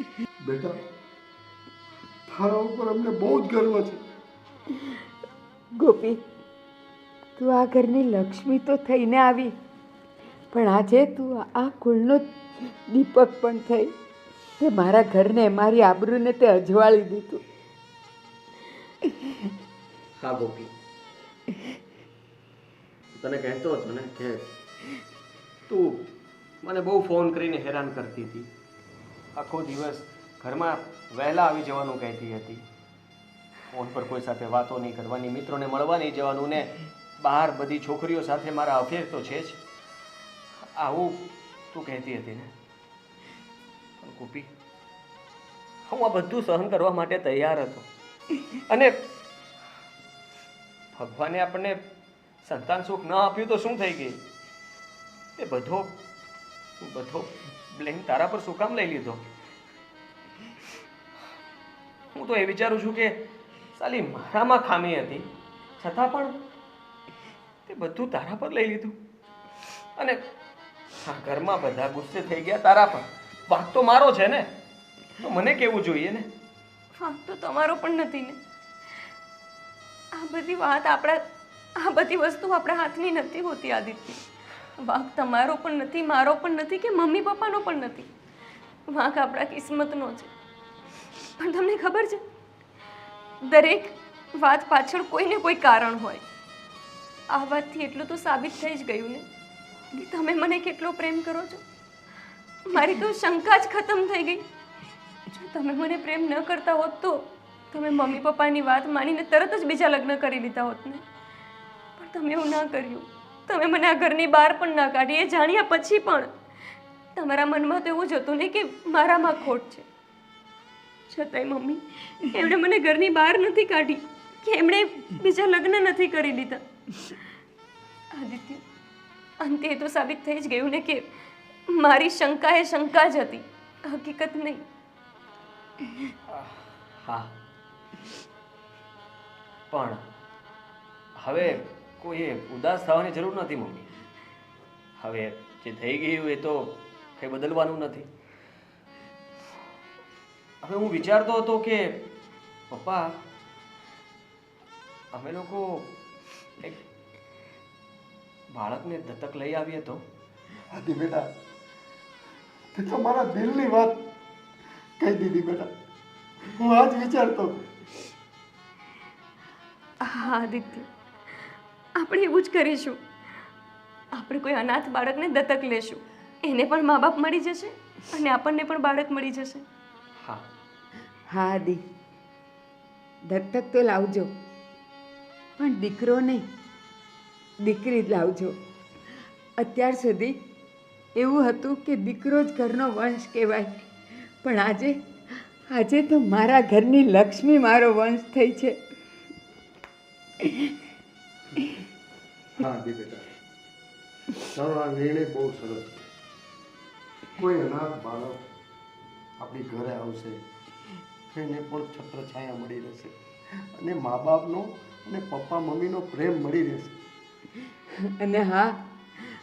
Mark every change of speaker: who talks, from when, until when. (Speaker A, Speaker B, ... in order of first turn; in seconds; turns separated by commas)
Speaker A: 0.4-0.8, Speaker A: 2.3-4.0, Speaker B: 5.8-6.2, Speaker B: 7.4-9.5, Speaker B: 10.5-13.9, Speaker B: 14.6-17.4, Speaker C: 20.2-20.7, Speaker C: 23.1-24.4, Speaker C: 25.7-26.1, Speaker C: 26.6-28.5, Speaker C: 29.4-32.6, Speaker C: 33.7-39.6, Speaker C: 40.8-42.5, Speaker C: 44.0-44.5, Speaker C: 45.9-47.9, Speaker C: 48.6-49.0, Speaker C: 50.9-51.8, Speaker C: 52.4-54.2, Speaker C: 55.4-56.0, Speaker C: 56.8-59.2, Speaker C: 62.1-63.2, Speaker C: 63.8-65.3, Speaker C: 65.8-66.4, Speaker C: 67.7-69.0, Speaker C: 71.0-74.5, Speaker C: 75.2-76.3, Speaker D: 77.0-78.4, Speaker D: 80.1-81.2, Speaker D: 81.8-84.3, Speaker D: 84.8-88.1, Speaker D: 88.9-90.3, Speaker D: 91.4-92.2, Speaker D: 93.5-96.2, Speaker D: 97.3-99.2, Speaker D: 99.9-101.6, Speaker D: 102.7-104.4, Speaker D: 105.3-111.0, Speaker D: 112.0-116.3, Speaker D: 117.2-119.8, Speaker D: 121.1-127.1, Speaker D: 128.2-128.6, Speaker D: 129.4-131.1, Speaker D: 131.7-134.7, Speaker C: 137.0-137.3, Speaker C: 139.7-140.0, Speaker C: 141.2-143.9, Speaker C: 145.0-148.1, Speaker C: 150.6-152.1, Speaker C: 152.7-153.1, Speaker C: 155.1-155.9, Speaker C: 158.5-160.0, Speaker A: 160.7-161.3, Speaker A: 162.7-164.1, Speaker A: 165.0-165.7, Speaker A: 166.6-167.6, Speaker D: 170.0-170.9, Speaker D: 172.0-173.0, Speaker D: 174.1-179.6, Speaker C: 180.2-180.4, Speaker B: 181.3-181.8, Speaker B: 183.3-184.3, Speaker B: 185.6-186.5, Speaker B: 187.6-188.6, Speaker B: 189.6-190.3, Speaker B: 191.2-193.7, Speaker B: 194.4-195.0, Speaker B: 195.7-198.8, Speaker A: 202.6-203.2, Speaker A: 204.4-206.0, Speaker A: 207.4-208.4, Speaker A: 209.4-210.4, Speaker A: 211.3-213.1, Speaker A: 213.8-216.9, Speaker B: 218.2-218.8